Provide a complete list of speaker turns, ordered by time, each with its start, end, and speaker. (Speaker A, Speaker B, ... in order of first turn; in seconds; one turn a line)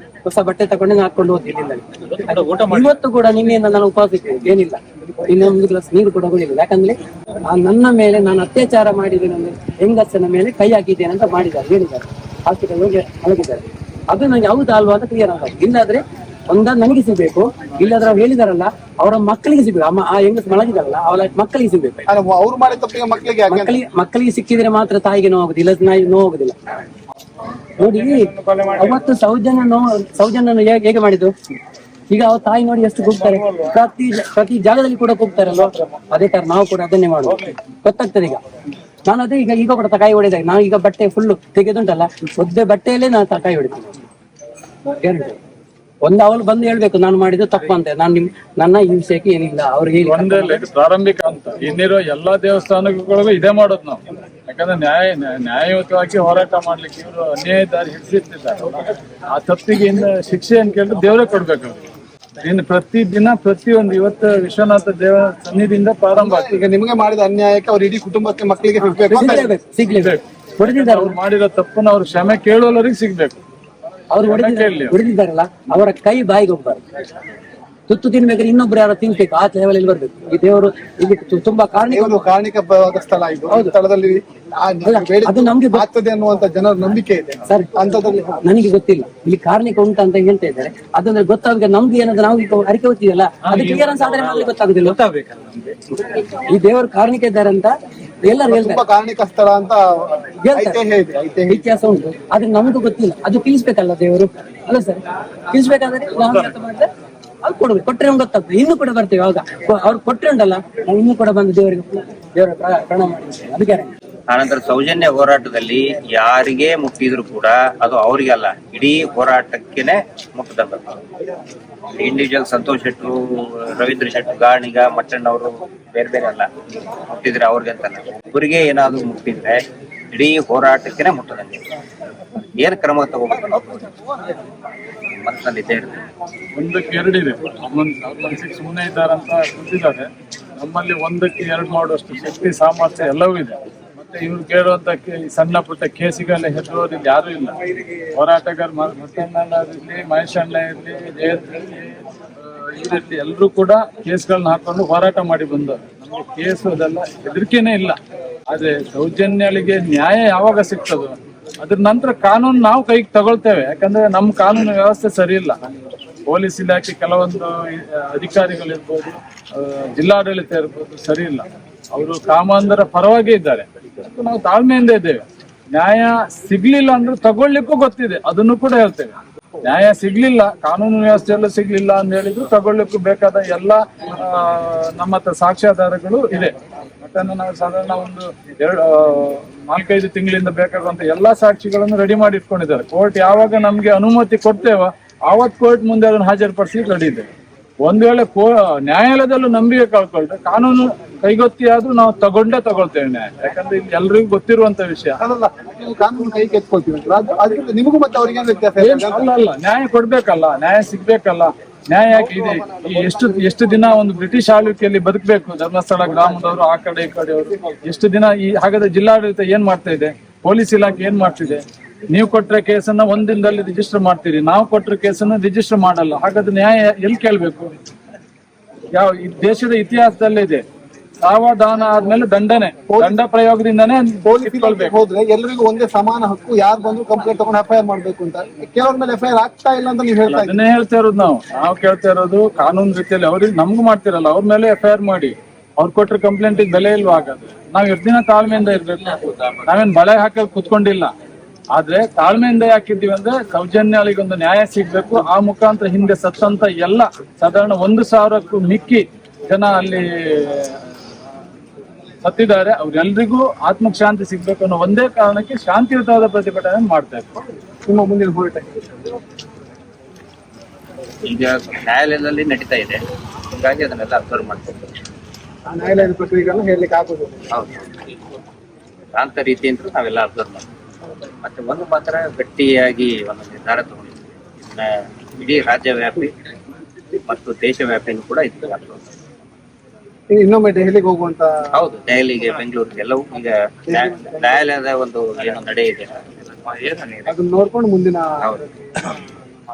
Speaker A: 0.2-22.0
Speaker B: 2.0-3.0
Speaker C: 22.1-23.8
Speaker A: 23.5-26.6
Speaker A: 27.8-31.3
Speaker D: 27.8-29.0
Speaker A: 32.1-38.4
Speaker D: 33.0-33.8
Speaker D: 37.2-37.5
Speaker A: 39.0-43.9
Speaker A: 44.9-45.4
Speaker A: 46.0-50.7
Speaker D: 50.0-61.8
Speaker D: 62.4-66.6
Speaker C: 66.1-69.5
Speaker A: 68.8-71.2
Speaker D: 69.8-73.4
Speaker A: 74.1-76.8
Speaker D: 74.2-75.0
Speaker A: 77.9-82.2
Speaker C: 81.9-88.4
Speaker A: 84.8-85.8
Speaker A: 87.5-87.7
Speaker A: 88.4-95.0
Speaker B: 93.4-96.0
Speaker A: 96.5-97.7
Speaker A: 98.2-98.8
Speaker C: 98.4-101.8
Speaker A: 100.5-100.8
Speaker A: 101.5-106.9
Speaker D: 106.2-106.5
Speaker A: 107.4-113.9
Speaker E: 114.3-121.0
Speaker E: 121.9-126.5
Speaker E: 127.0-129.6
Speaker E: 130.1-131.6
Speaker E: 132.6-133.9
Speaker E: 135.2-136.0
Speaker D: 136.6-158.0
Speaker D: 158.5-165.6
Speaker D: 166.3-175.2
Speaker D: 175.7-197.3
Speaker D: 197.8-205.2
Speaker C: 205.2-209.3
Speaker D: 208.8-227.7
Speaker D: 228.9-230.6
Speaker D: 231.2-235.0
Speaker C: 232.9-233.2
Speaker C: 234.2-240.6
Speaker D: 240.2-251.1
Speaker D: 251.7-260.8
Speaker D: 262.2-267.4
Speaker C: 267.9-268.9
Speaker E: 271.2-274.9
Speaker C: 275.6-277.4
Speaker E: 277.5-278.0
Speaker E: 279.1-280.6
Speaker E: 281.4-286.3
Speaker E: 287.2-289.0
Speaker C: 290.3-291.5
Speaker E: 291.7-297.3
Speaker C: 293.9-294.6
Speaker C: 297.2-298.6